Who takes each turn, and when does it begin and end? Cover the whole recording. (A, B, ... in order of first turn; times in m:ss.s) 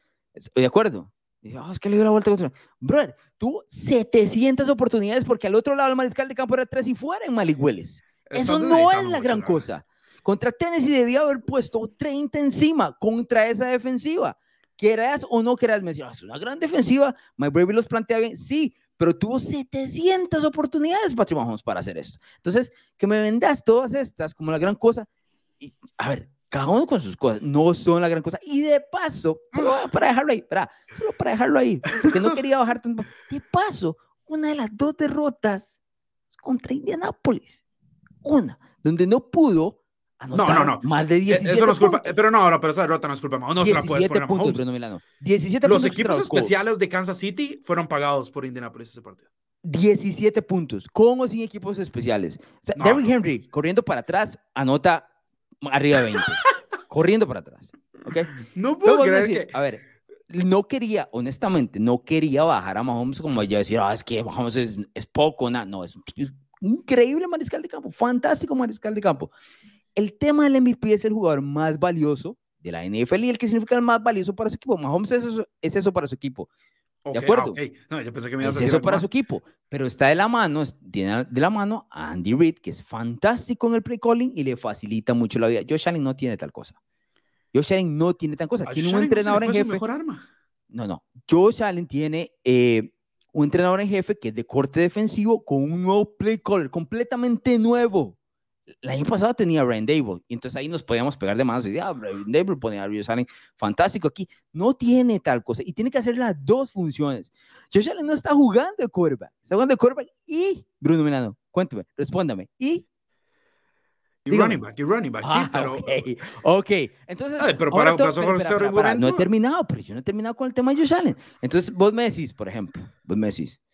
0:00.4-0:25.1 A
0:08.3-0:09.7 B
0:25.6-0:35.8 A
0:36.3-0:37.6 A
0:38.2-0:42.1 A
0:40.3-0:44.6 B
0:43.6-0:46.6 A
0:45.6-0:49.2 B
0:49.6-0:55.1 A
0:52.8-0:53.1 B
0:55.6-0:58.3 A
0:58.4-0:59.6 B
0:58.8-1:09.3 A
1:10.0-1:16.5 A
1:17.0-1:19.1 B
1:17.1-1:17.6 A
1:18.4-1:26.8 A
1:27.5-1:29.8 A
1:28.6-1:30.2 B
1:30.7-1:38.2 A
1:38.8-1:52.8 A
1:54.2-1:56.1 B
1:54.3-1:54.6 A
1:55.2-2:03.6 A
1:57.4-1:59.3 B